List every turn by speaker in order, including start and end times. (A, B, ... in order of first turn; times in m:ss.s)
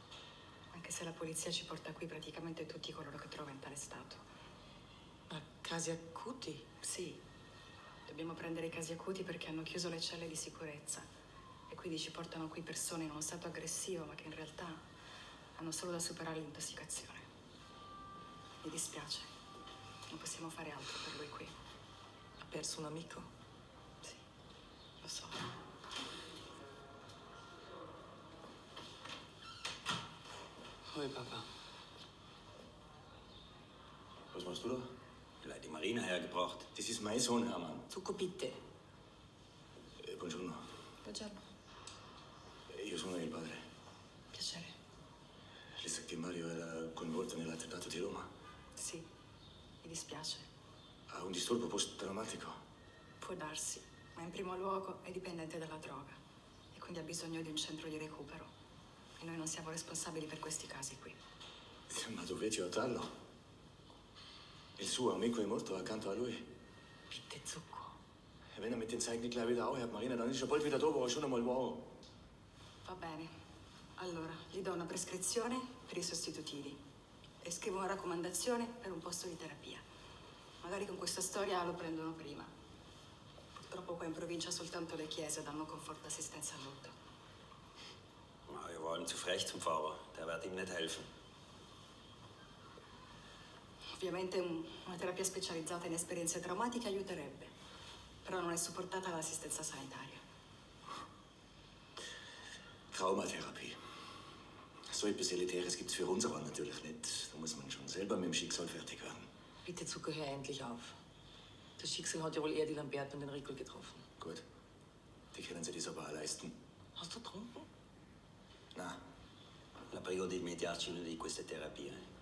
0:00.7-0:04.2 A
0:05.3-0:06.6 B
0:06.8-0:07.2 A
0:08.0-0:11.0 A
0:11.7-0:14.8 A
0:15.6-0:17.2 A
0:18.6-0:19.3 A
0:20.1-0:21.5 A
0:22.4-0:23.3 B
0:25.0-0:25.3 A
0:30.9-0:31.4 B
0:34.3-0:34.9 C
0:35.4-0:36.7 D
0:36.7-0:37.9 C
0:37.9-0:38.6 B
0:40.0-0:40.6 C
0:41.0-0:41.4 A
0:42.7-0:43.6 C
0:44.3-0:44.7 A
0:45.8-0:48.3 C
0:48.8-0:49.1 A
0:49.8-0:50.4 A
0:51.1-0:52.6 C
0:53.2-0:56.2 A
0:56.7-0:58.5 A
0:59.2-1:01.2 A
1:01.9-1:03.1 C
1:04.8-1:06.5 C
1:07.1-1:07.9 B
1:08.5-1:11.9 C
1:12.8-1:13.3 A
1:14.0-1:16.8 A
1:17.4-1:19.8 A
1:20.6-1:22.5 A
1:23.6-1:26.9 A
1:28.5-1:31.0 D
1:34.0-1:37.5 A
1:38.2-1:40.2 A
1:42.9-1:43.8 C
1:44.9-1:49.2 C
1:49.6-1:50.9 B
1:51.8-1:54.0 B
1:55.3-1:56.5 C
1:57.0-1:57.6 B
1:58.7-1:59.0 C
1:59.9-2:02.0 D